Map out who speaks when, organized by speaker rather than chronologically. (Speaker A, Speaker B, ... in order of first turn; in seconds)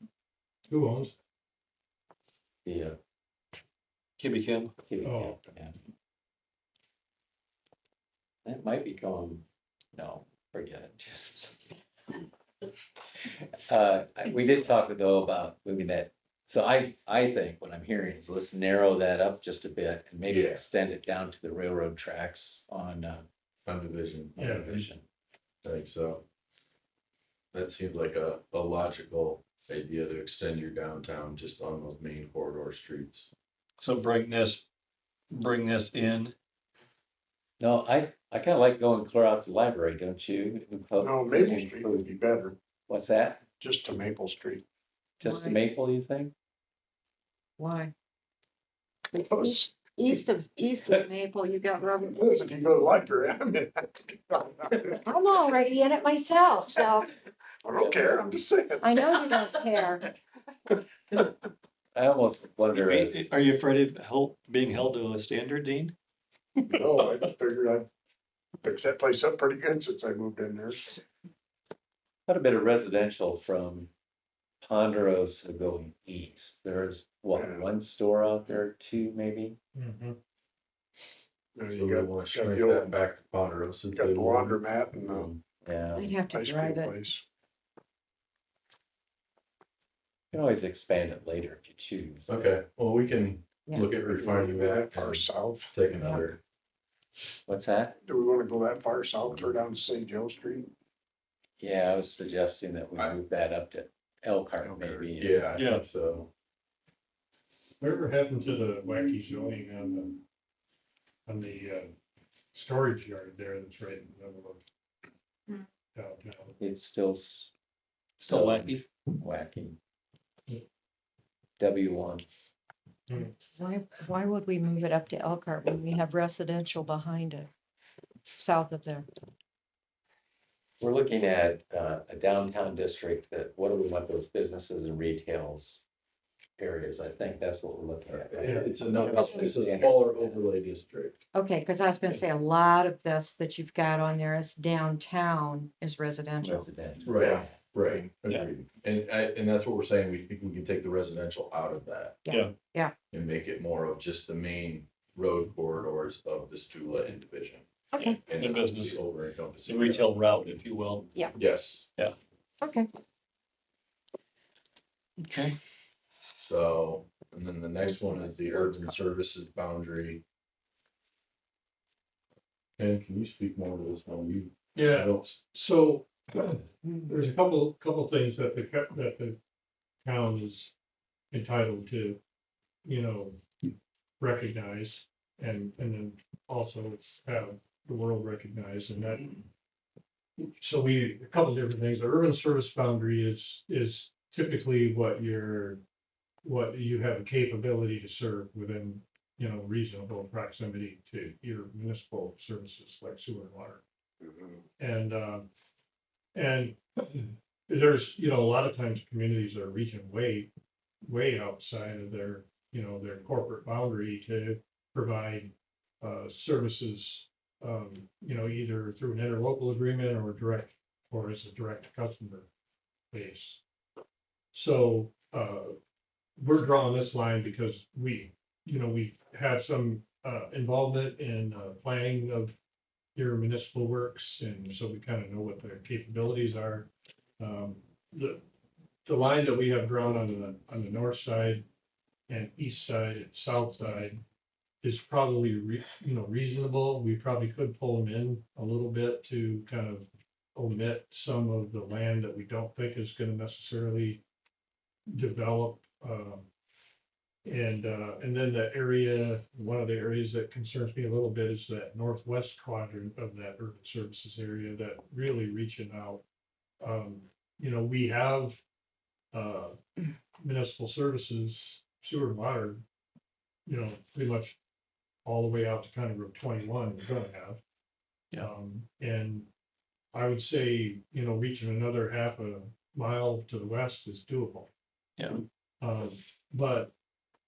Speaker A: 0.7-1.1, 5.0-5.3, 24.4-24.8, 79.7-80.2, 107.8-110.2, 111.2-111.9, 112.5-114.6, 115.9-116.5, 174.7-179.4, 180.0-180.7, 181.3-182.2, 182.8-183.4, 184.2-189.4, 190.4-195.8, 196.4-203.8, 204.8-205.5, 206.3-210.5, 211.0-222.5, 223.1-223.6, 224.5-225.8, 226.4-232.5, 233.2-238.4, 239.0-241.7, 242.3-244.2, 244.8-254.2, 255.1-256.5, 257.4-266.2, 266.8-268.6, 269.3-269.8, 270.4-272.8, 273.7-274.6, 275.2-277.6, 278.4-279.5, 280.1-284.7, 285.8-286.9
Speaker B: 2.6-3.0, 4.9-5.8, 8.4-11.7, 13.7-23.2, 24.4-25.0, 37.6-42.1, 42.9-43.4, 45.2-46.3, 61.9-63.2, 72.3-73.9, 74.6-79.6, 85.6-86.1, 90.3-92.5, 97.5-98.0, 101.6-105.4, 116.6-117.5, 118.2-119.8, 121.6-122.2, 130.8-135.8, 136.6-140.4, 146.4-148.0
Speaker C: 4.2-4.7, 33.8-34.6, 35.3-36.3, 62.7-65.9, 66.8-67.1, 105.5-105.8, 118.2-118.8, 152.3-152.5, 158.3-159.0, 159.7-161.1, 165.2-165.5, 285.2-285.4
Speaker D: 20.2-20.6, 23.6-24.8, 25.6-26.2, 27.5-33.3, 81.7-85.4, 92.3-96.4, 104.6-106.3, 138.1-141.2, 147.0-152.2, 153.1-157.7, 158.2-160.1, 161.3-161.9, 166.4-170.2, 172.8-175.3
Speaker E: 41.0-42.6, 43.6-44.6, 49.2-50.0, 52.0-55.0, 57.6-59.5, 66.7-67.9, 68.6-71.0, 77.3-77.7, 81.5-83.0, 83.9-85.3, 86.3-87.2, 94.0-95.8, 98.0-100.7, 204.2-204.6
Speaker F: 45.2-45.6, 47.6-47.9, 49.1-52.1, 55.1-57.1, 58.8-60.0, 85.9-87.0, 96.0-96.2, 123.3-127.5, 128.4-129.1, 139.0-139.4, 141.3-146.7, 152.2-152.9, 157.9-158.2, 162.6-162.9, 168.0-168.9